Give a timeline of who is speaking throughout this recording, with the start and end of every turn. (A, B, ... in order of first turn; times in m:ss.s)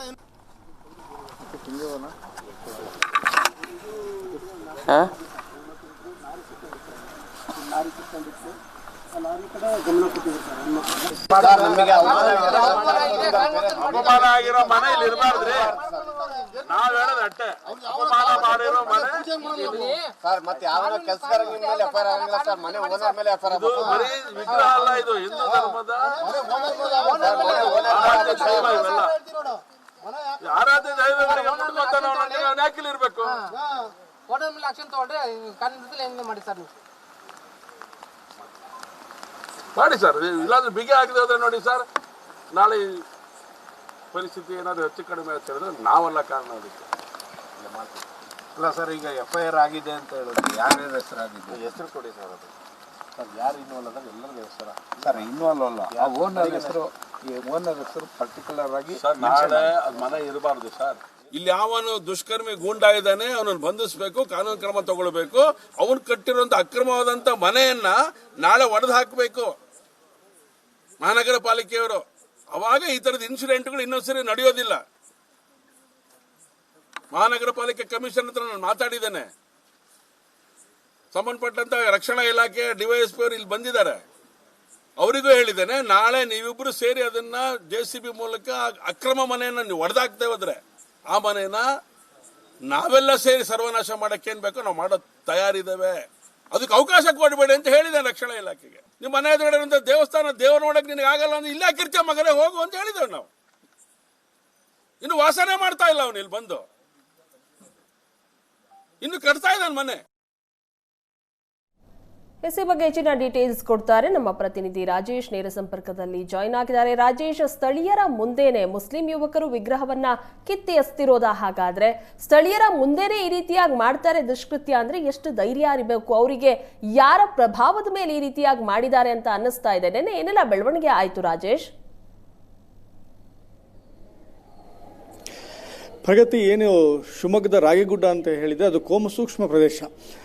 0:01.5-0:02.1 A
0:07.8-0:08.5 B
0:09.4-0:15.6 B
0:11.3-0:16.2 C
0:12.3-0:15.8 D
0:16.6-0:20.0 D
0:19.4-0:23.2 B
0:20.2-0:24.0 C
0:23.5-0:29.2 D
0:24.4-0:24.8 B
0:26.2-0:28.8 C
0:26.7-0:29.0 B
0:30.4-0:33.4 D
0:31.2-0:32.5 B
0:34.3-0:36.7 B
0:39.7-0:41.8 D
0:42.5-0:43.0 D
0:44.1-0:46.9 D
0:48.6-0:51.8 A
0:51.5-0:52.5 C
0:53.2-0:59.8 A
0:56.0-0:56.6 C
0:58.9-1:09.6 D
1:11.0-1:14.8 D
1:17.1-1:19.3 D
1:21.1-1:24.0 D
1:25.0-1:31.6 D
1:32.7-1:43.3 D
1:45.0-1:46.6 D
1:49.0-1:50.0 D
1:52.4-2:11.7 E
2:16.0-2:19.9 F